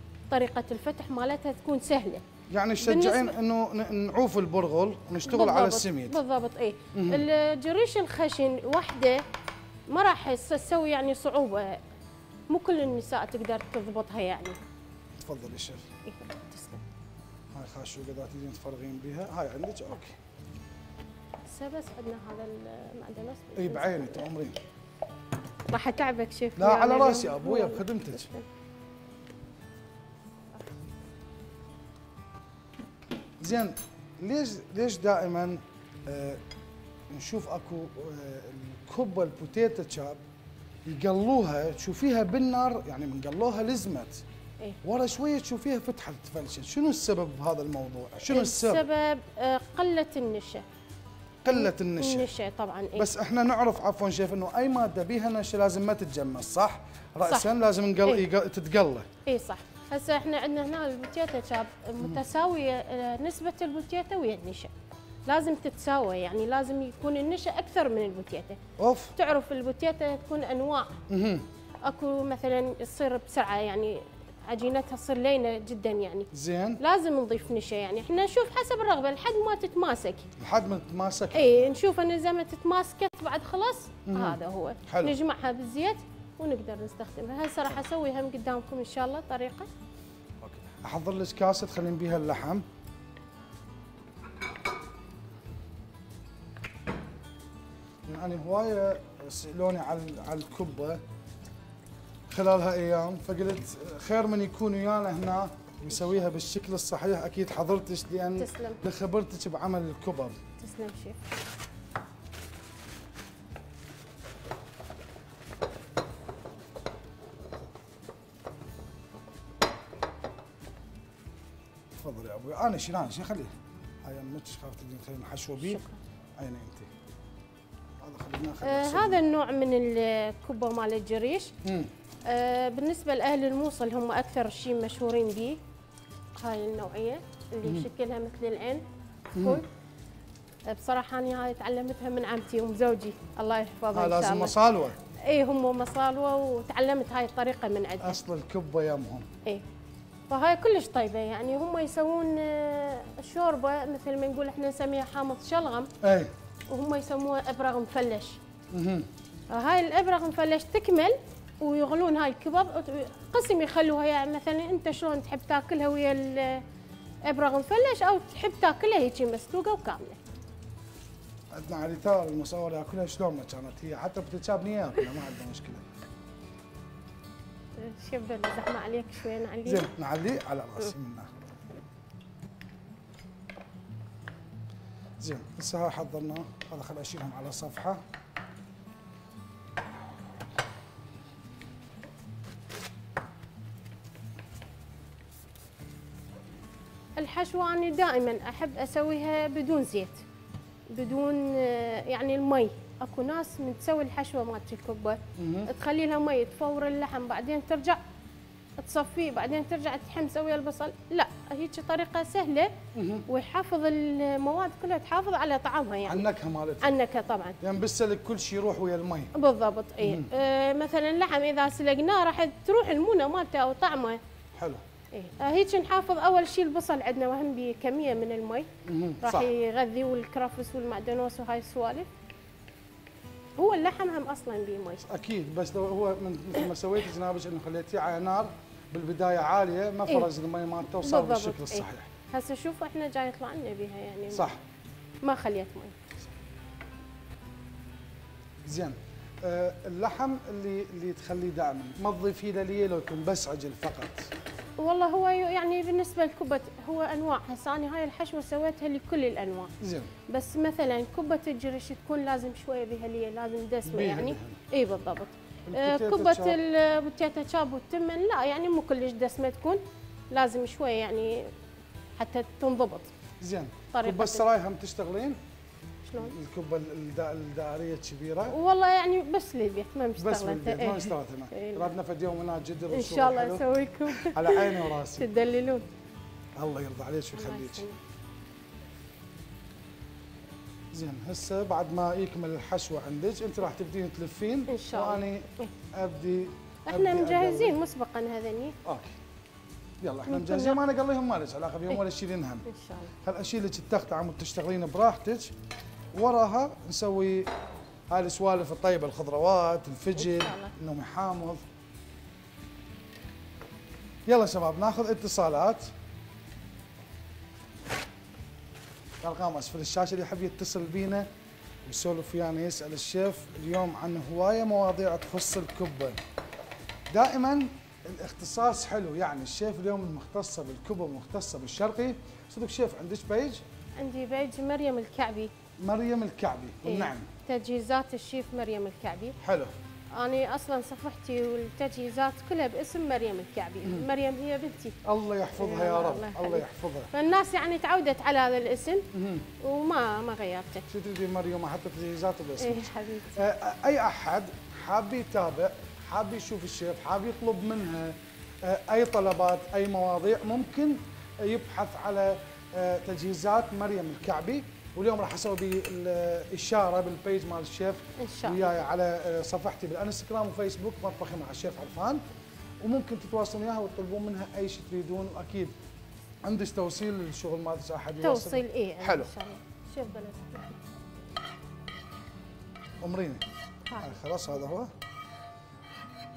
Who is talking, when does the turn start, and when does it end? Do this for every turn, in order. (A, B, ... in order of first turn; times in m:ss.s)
0:00.3-0:02.2 A
0:02.5-0:06.2 B
0:02.8-0:03.3 A
0:05.3-0:09.2 A
0:06.9-0:07.2 B
0:09.9-0:11.8 A
0:12.5-0:14.6 A
0:15.2-0:15.9 B
0:16.0-0:16.8 A
0:17.6-0:20.2 B
0:21.5-0:24.3 A
0:23.6-0:24.6 B
0:25.7-0:28.4 A
0:26.6-0:28.3 B
0:33.4-0:36.4 B
0:37.1-0:40.2 B
0:40.8-0:44.2 B
0:44.8-0:48.8 B
0:48.3-0:50.6 A
0:51.4-0:52.3 B
0:51.5-0:53.1 A
0:53.0-0:59.1 B
0:59.2-1:04.7 A
1:05.3-1:08.6 A
1:08.8-1:09.2 B
1:09.2-1:10.9 A
1:11.1-1:11.5 B
1:11.8-1:20.3 A
1:16.3-1:16.8 B
1:20.4-1:21.7 B
1:21.3-1:29.7 A
1:24.1-1:25.2 B
1:30.4-1:32.6 B
1:38.1-1:41.0 B
1:42.3-1:50.4 B
1:48.4-1:48.8 A
1:50.6-1:51.2 A
2:02.0-2:05.8 B
2:05.6-2:06.0 A
2:06.4-2:06.9 B
2:08.0-2:09.2 B
2:08.6-2:11.5 A
2:11.6-2:11.9 B
2:12.3-2:15.6 A
2:16.4-2:18.8 A
2:17.6-2:17.9 B
2:19.4-2:19.6 B
2:19.4-2:19.7 A
2:20.7-2:24.6 A
2:23.9-2:25.0 B
2:25.2-2:28.2 A
2:28.0-2:29.3 B
2:30.3-2:35.9 A
2:36.0-2:36.3 B
2:36.7-2:38.4 A
2:38.7-2:39.1 B
2:39.5-2:46.6 A
2:47.3-2:50.2 A
2:51.5-2:55.8 B
2:57.8-2:59.9 A
2:59.6-3:01.3 B
3:05.2-3:08.0 B
3:17.2-3:20.2 A
3:20.9-3:28.0 A
3:25.4-3:25.7 B
3:28.8-3:32.7 A
3:32.9-3:33.2 B
3:33.3-3:36.2 A
3:36.1-3:36.9 B
3:36.8-3:37.6 A
3:37.6-3:39.3 B
3:39.3-3:44.2 A
3:40.0-3:40.3 B
3:44.6-3:44.8 B
3:45.1-3:48.7 A
3:48.9-3:49.5 B
3:49.2-3:52.1 A
3:53.6-3:55.0 A
3:55.0-4:02.1 B
4:01.0-4:04.5 A
4:04.3-4:04.6 B
4:05.2-4:06.0 A
4:08.6-4:14.3 B
4:14.8-4:19.7 A
4:19.8-4:20.1 B
4:20.3-4:31.5 A
4:23.8-4:24.6 B
4:25.7-4:26.6 B
4:32.2-4:33.1 A
4:33.4-4:35.4 B
4:33.9-4:34.4 A
4:36.0-4:36.3 A
4:36.2-4:38.6 B
4:38.5-4:41.9 A
4:40.2-4:45.3 B
4:42.9-4:45.9 A
4:46.6-4:47.8 B
4:47.4-4:48.0 A
4:50.9-4:57.8 B
4:54.7-4:55.7 A
4:56.9-4:58.8 A
4:58.8-4:59.2 B
5:00.0-5:02.7 B
5:00.3-5:00.8 A
5:02.7-5:03.1 A
5:03.2-5:05.5 B
5:06.1-5:07.5 B
5:08.1-5:11.6 B
5:10.2-5:10.7 A
5:14.3-5:15.9 B
5:19.2-5:21.3 B
5:21.8-5:26.2 B
5:27.1-5:33.6 B
5:34.0-5:35.5 A
5:35.8-5:37.3 B
5:36.8-5:39.4 A
5:39.4-5:39.7 B
5:40.2-5:45.0 A
5:45.0-5:47.1 B
5:45.6-5:49.1 A
5:49.1-5:49.5 B
5:49.6-5:50.9 A
5:50.9-6:12.2 B
5:52.6-5:53.4 A
6:08.2-6:08.8 A
6:12.8-6:15.8 B
6:16.4-6:19.3 B
6:18.2-6:20.8 A
6:23.0-6:23.4 B
6:23.9-6:24.2 A
6:24.0-6:24.9 B